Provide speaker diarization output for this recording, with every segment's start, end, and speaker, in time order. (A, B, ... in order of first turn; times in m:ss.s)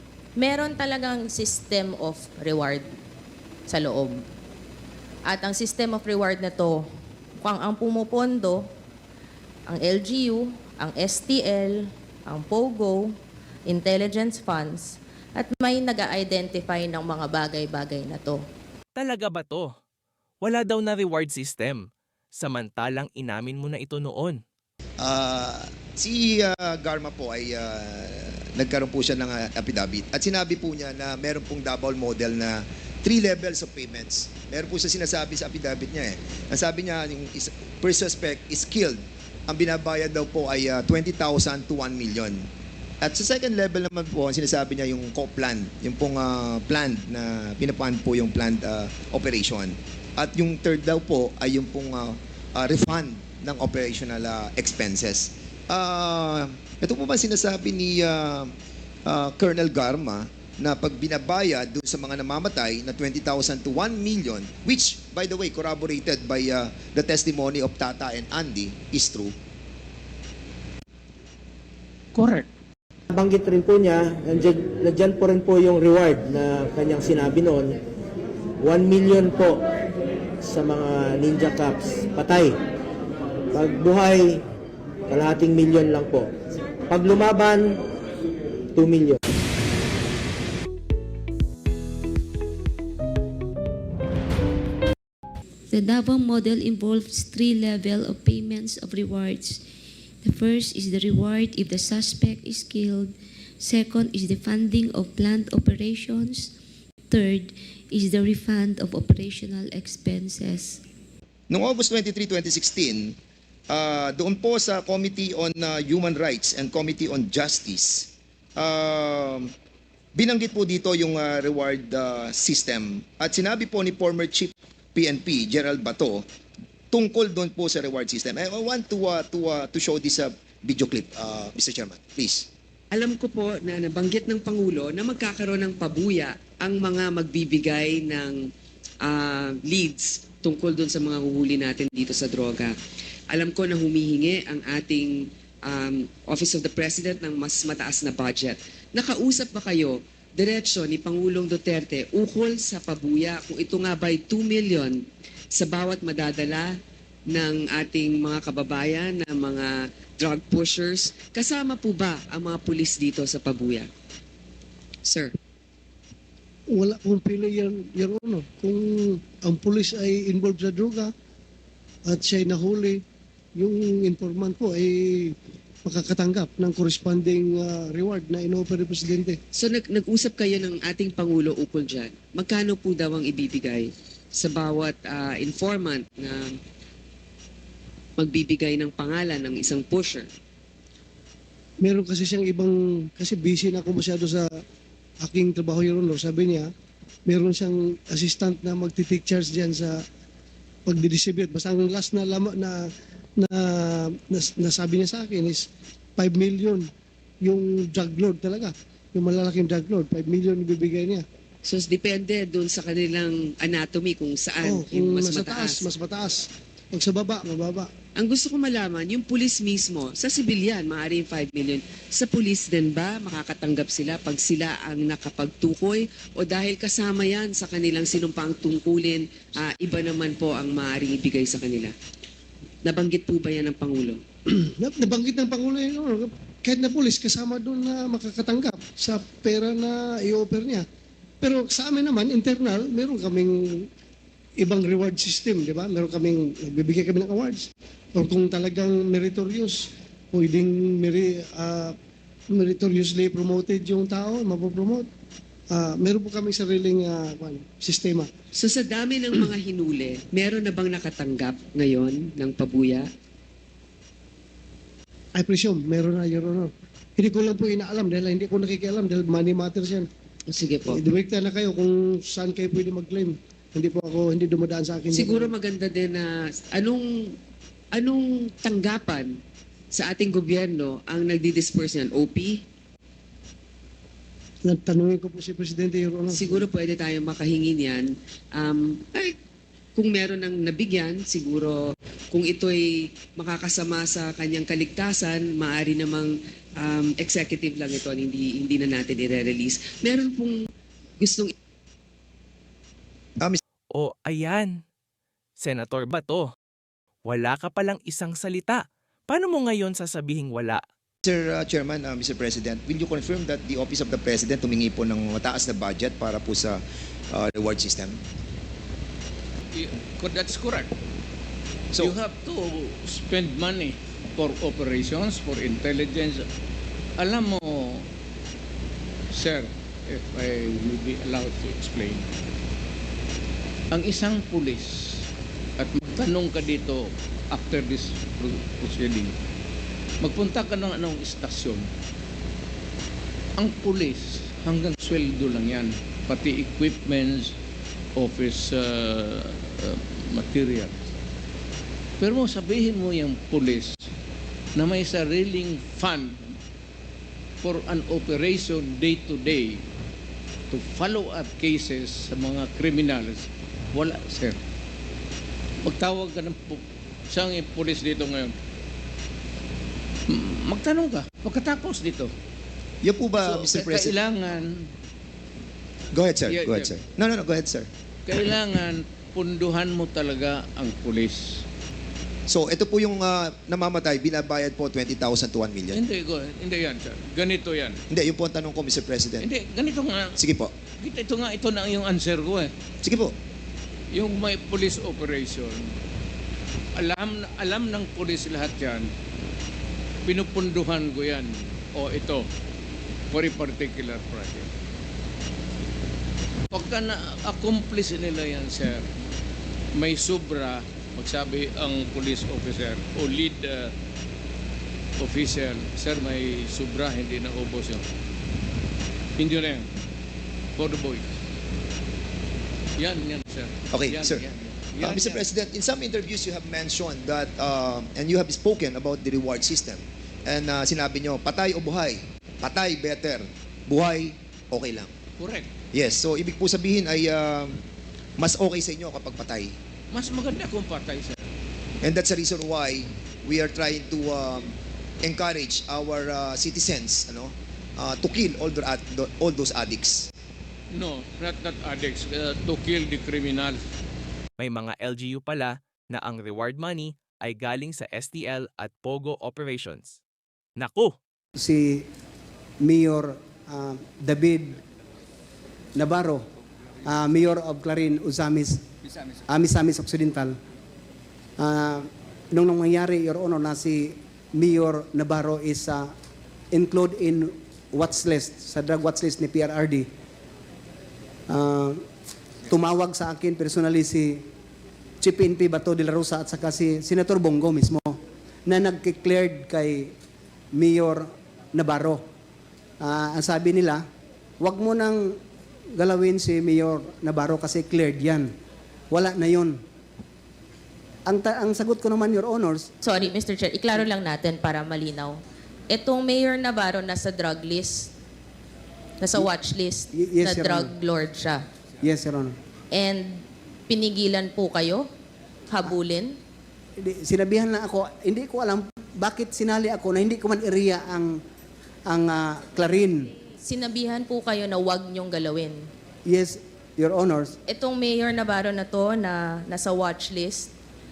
0:00.4-0:02.9 A
0:03.7-0:04.2 A
0:05.3-0:06.8 A
0:07.4-0:08.6 A
0:09.7-0:13.2 A
0:13.7-0:18.4 A
0:19.0-0:19.7 B
0:20.4-0:24.4 B
0:25.0-0:42.5 C
0:43.0-0:58.5 C
0:59.1-1:09.3 C
1:12.2-1:12.5 D
1:13.1-1:17.8 E
1:18.6-1:19.7 E
1:20.4-1:22.6 E
1:23.5-1:24.4 E
1:25.1-1:26.3 E
1:26.9-1:27.8 E
1:28.8-1:29.2 E
1:35.7-1:39.6 F
1:40.2-1:46.5 F
1:47.1-1:50.8 F
1:51.5-1:53.2 C
1:53.7-1:59.5 C
2:00.2-2:06.3 C
2:06.9-2:12.5 C
2:12.9-2:18.4 G
2:19.0-2:22.7 G
2:23.3-2:25.1 G
2:25.7-2:35.0 G
2:35.5-2:36.7 G
2:37.3-2:43.9 G
2:45.0-2:45.3 G
2:46.8-2:51.1 H
2:52.1-2:53.0 H
2:53.6-2:59.4 H
2:59.6-3:06.5 G
3:08.2-3:10.3 G
3:11.8-3:14.5 H
3:15.2-3:16.7 H
3:17.3-3:20.0 H
3:20.9-3:22.9 H
3:23.4-3:25.6 H
3:26.2-3:26.9 H
3:27.4-3:31.2 H
3:31.6-3:35.8 G
3:34.6-3:36.4 H
3:36.9-3:37.9 H
3:38.2-3:51.9 G
3:52.8-3:54.2 G
3:54.8-4:00.8 H
4:01.4-4:03.9 H
4:04.6-4:12.0 H
4:12.5-4:15.1 H
4:15.7-4:18.3 H
4:18.6-4:23.1 G
4:25.4-4:30.1 H
4:30.5-4:31.0 G
4:30.9-4:35.5 H
4:35.1-4:37.3 G
4:37.9-4:39.3 G
4:39.9-4:42.6 G
4:44.7-4:46.6 H
4:46.3-4:49.3 G
4:50.0-4:51.8 G
4:52.3-5:00.5 G
5:01.2-5:01.5 G
5:03.9-5:04.8 B
5:05.6-5:06.5 B
5:07.2-5:10.8 B
5:11.2-5:18.2 C
5:19.7-5:20.9 D
5:21.9-5:22.2 C
5:22.0-5:26.4 D
5:27.2-5:28.1 D
5:29.3-5:32.3 D
5:33.9-5:35.2 D
5:35.8-5:39.4 D
5:40.2-5:41.9 D
5:43.6-5:47.6 D
5:48.2-5:51.0 D
5:52.2-5:54.0 D
5:54.8-5:56.4 D
5:57.6-5:59.8 D
6:00.7-6:04.6 D
6:05.8-6:08.5 D
6:10.3-6:12.3 D
6:13.0-6:14.2 C
6:13.4-6:14.9 D
6:16.1-6:17.9 C
6:16.5-6:17.0 D
6:18.3-6:21.6 D
6:22.5-6:26.0 C
6:25.9-6:28.0 D
6:28.1-6:29.5 C
6:29.4-6:30.4 D
6:30.4-6:30.7 C
6:31.0-6:32.7 D
6:33.0-6:33.3 C
6:34.1-6:35.8 D
6:37.0-6:39.1 D
6:40.3-6:42.5 D
6:43.3-6:44.7 D
6:46.7-6:49.1 D
6:50.0-6:53.9 D
6:55.2-6:58.0 D
6:59.4-6:59.9 D
7:00.8-7:01.3 D
7:03.0-7:05.5 D
7:03.9-7:04.4 C
7:05.0-7:15.1 C
7:15.4-7:15.7 D
7:15.9-7:17.8 C
7:18.4-7:19.8 C
7:20.1-7:21.4 D
7:22.0-7:30.3 C
7:30.9-7:33.8 D
7:34.6-7:40.2 B
7:40.8-7:41.2 B
7:41.6-7:42.0 I
7:42.8-7:44.8 I
7:46.0-7:46.4 I
7:47.0-7:48.8 I
7:49.5-7:50.5 I
7:51.6-7:56.1 I
7:56.7-8:00.1 I
8:01.5-8:02.0 I
8:02.7-8:04.4 I
8:05.2-8:10.1 I
8:10.7-8:12.2 I
8:13.0-8:14.0 I
8:14.6-8:15.4 I
8:16.0-8:18.5 I
8:19.1-8:19.8 I
8:21.3-8:22.9 I
8:23.0-8:25.4 A
8:25.9-8:28.1 A
8:29.2-8:31.6 A
8:30.1-8:30.9 I
8:32.0-8:32.6 I
8:32.9-8:35.1 A
8:35.7-8:36.4 A
8:37.0-8:41.4 I
8:42.1-8:43.3 I
8:43.6-8:45.9 A
8:46.3-8:47.6 I
8:47.7-8:50.7 A